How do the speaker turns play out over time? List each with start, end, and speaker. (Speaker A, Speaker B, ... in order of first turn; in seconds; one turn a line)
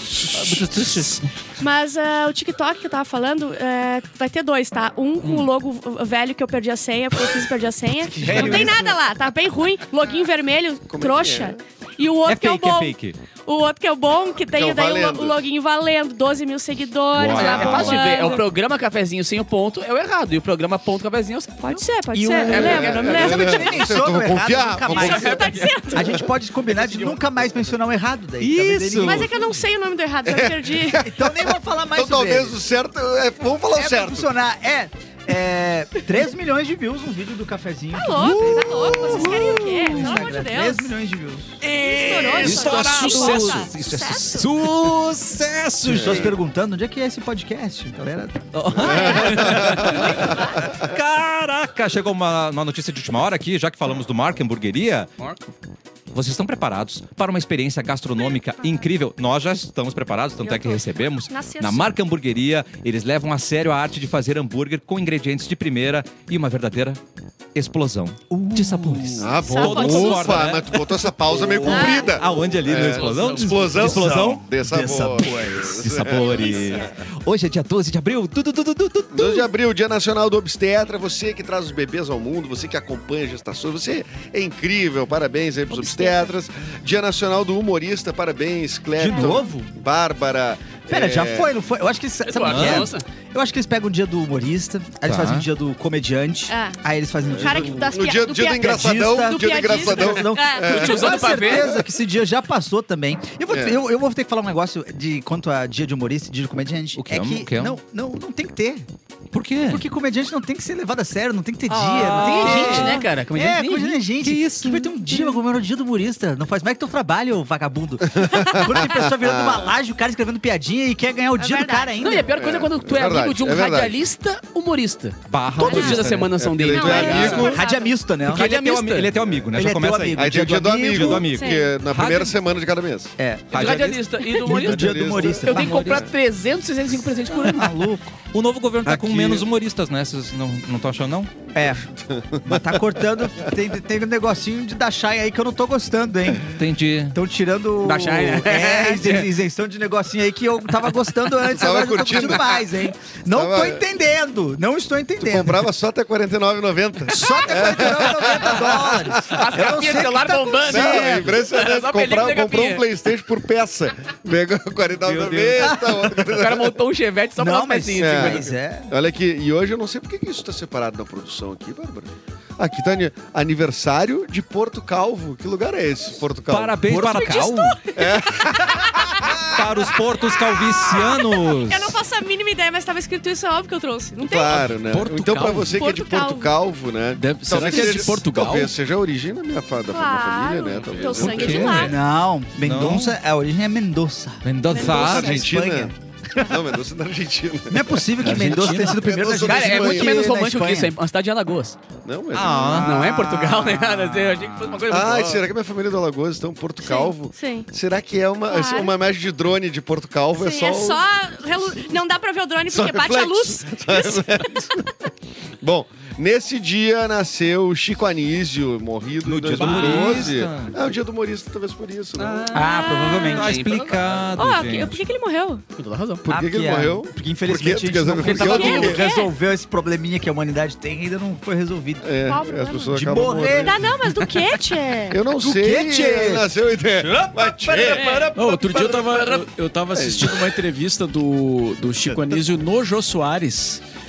Speaker A: 0.3-1.2
Speaker B: 0.4-1.1
Speaker C: 1.6-18.4
Speaker A: 8.1-8.9
Speaker D: 10.9-11.6
Speaker A: 12.2-13.2
Speaker D: 14.5-15.4
Speaker A: 17.1-18.1
Speaker E: 17.3-21.8
Speaker C: 21.6-23.9
Speaker B: 22.1-29.4
Speaker D: 22.4-26.3
Speaker C: 24.9-26.3
Speaker E: 26.7-27.2
Speaker A: 28.4-29.4
Speaker C: 29.0-31.1
Speaker D: 30.3-34.3
Speaker B: 31.0-32.6
Speaker B: 33.7-41.6
Speaker C: 37.9-40.9
Speaker A: 41.6-46.3
Speaker C: 41.6-44.6
Speaker F: 42.1-43.7
Speaker B: 45.8-48.9
Speaker D: 45.9-46.4
Speaker A: 48.5-55.1
Speaker D: 48.7-50.9
Speaker C: 48.8-49.5
Speaker B: 49.4-50.1
Speaker E: 55.2-55.5
Speaker A: 56.1-67.0
Speaker C: 58.2-58.9
Speaker C: 60.4-61.9
Speaker A: 67.5-70.9
Speaker B: 68.3-69.3
Speaker D: 69.2-76.9
Speaker C: 69.3-70.5
Speaker B: 71.3-72.0
Speaker C: 71.6-72.2
Speaker A: 71.8-74.4
Speaker E: 72.7-73.7
Speaker B: 73.7-75.9
Speaker A: 75.7-79.5
Speaker C: 76.1-77.0
Speaker D: 79.1-91.5
Speaker C: 85.7-86.3
Speaker B: 89.0-89.7
Speaker C: 89.1-89.5
Speaker B: 90.9-98.0
Speaker E: 92.2-93.0
Speaker A: 92.5-92.9
Speaker A: 95.0-95.5
Speaker C: 96.5-96.8
Speaker D: 97.3-101.8
Speaker C: 97.3-100.8
Speaker B: 98.6-108.8
Speaker E: 100.6-101.7
Speaker D: 103.5-103.8
Speaker A: 106.9-107.8
Speaker A: 109.3-109.8
Speaker B: 109.7-122.3
Speaker E: 111.7-114.0
Speaker A: 111.8-113.0
Speaker C: 112.6-113.0
Speaker A: 114.2-115.1
Speaker D: 118.1-119.7
Speaker C: 121.4-122.0
Speaker E: 122.0-127.6
Speaker D: 122.3-124.0
Speaker A: 125.3-126.3
Speaker C: 125.6-126.0
Speaker D: 125.7-127.6
Speaker C: 126.6-127.9
Speaker A: 127.1-127.5
Speaker B: 127.3-128.5
Speaker A: 128.2-132.3
Speaker E: 128.2-129.1
Speaker B: 129.5-131.3
Speaker D: 130.1-133.1
Speaker C: 131.2-131.8
Speaker B: 133.2-133.8
Speaker A: 133.5-134.1
Speaker E: 133.5-137.7
Speaker B: 134.4-136.1
Speaker D: 134.5-136.1
Speaker B: 137.3-138.2
Speaker A: 138.3-141.3
Speaker B: 138.8-139.4
Speaker D: 141.5-142.8
Speaker B: 141.5-141.8
Speaker B: 142.4-146.5
Speaker A: 146.5-147.2
Speaker B: 147.1-155.6
Speaker E: 147.8-149.3
Speaker D: 151.6-152.6
Speaker E: 152.2-152.6
Speaker D: 153.3-153.8
Speaker D: 155.2-159.4
Speaker B: 157.1-161.4
Speaker E: 159.2-162.8
Speaker D: 160.6-166.8
Speaker A: 165.0-165.8
Speaker B: 165.6-166.2
Speaker E: 166.3-168.5
Speaker B: 167.4-168.9
Speaker D: 168.0-177.0
Speaker A: 176.5-177.8
Speaker B: 176.9-177.2
Speaker C: 176.9-179.7
Speaker D: 177.9-179.6
Speaker A: 179.5-182.0
Speaker C: 180.3-184.6
Speaker D: 184.2-191.9
Speaker F: 184.5-185.8
Speaker C: 185.7-186.5
Speaker F: 187.2-188.7
Speaker C: 189.9-192.0
Speaker A: 191.2-191.9
Speaker B: 191.7-196.5
Speaker A: 192.6-193.2
Speaker A: 194.4-195.3
Speaker C: 194.7-195.5
Speaker D: 194.8-200.3
Speaker B: 197.7-200.9
Speaker F: 198.2-199.1
Speaker E: 199.4-201.8
Speaker D: 202.0-202.9
Speaker A: 202.3-203.0
Speaker B: 202.6-204.8
Speaker E: 202.7-205.4
Speaker D: 204.9-211.0
Speaker C: 206.8-207.7
Speaker C: 208.5-208.9
Speaker C: 210.3-214.8
Speaker D: 212.7-214.9
Speaker D: 215.6-222.5
Speaker A: 219.2-220.8
Speaker F: 219.5-220.3
Speaker A: 222.2-225.0
Speaker B: 222.5-223.6
Speaker C: 222.5-223.6
Speaker E: 223.2-224.2
Speaker C: 224.3-225.6
Speaker E: 225.7-226.2
Speaker B: 226.2-232.2
Speaker D: 226.2-229.0
Speaker C: 228.3-229.3
Speaker D: 232.0-233.8
Speaker C: 232.2-235.2
Speaker B: 232.8-233.9
Speaker D: 235.1-239.4
Speaker B: 235.3-238.3
Speaker C: 237.9-238.4
Speaker F: 238.3-243.8
Speaker D: 239.9-240.6
Speaker A: 242.1-242.3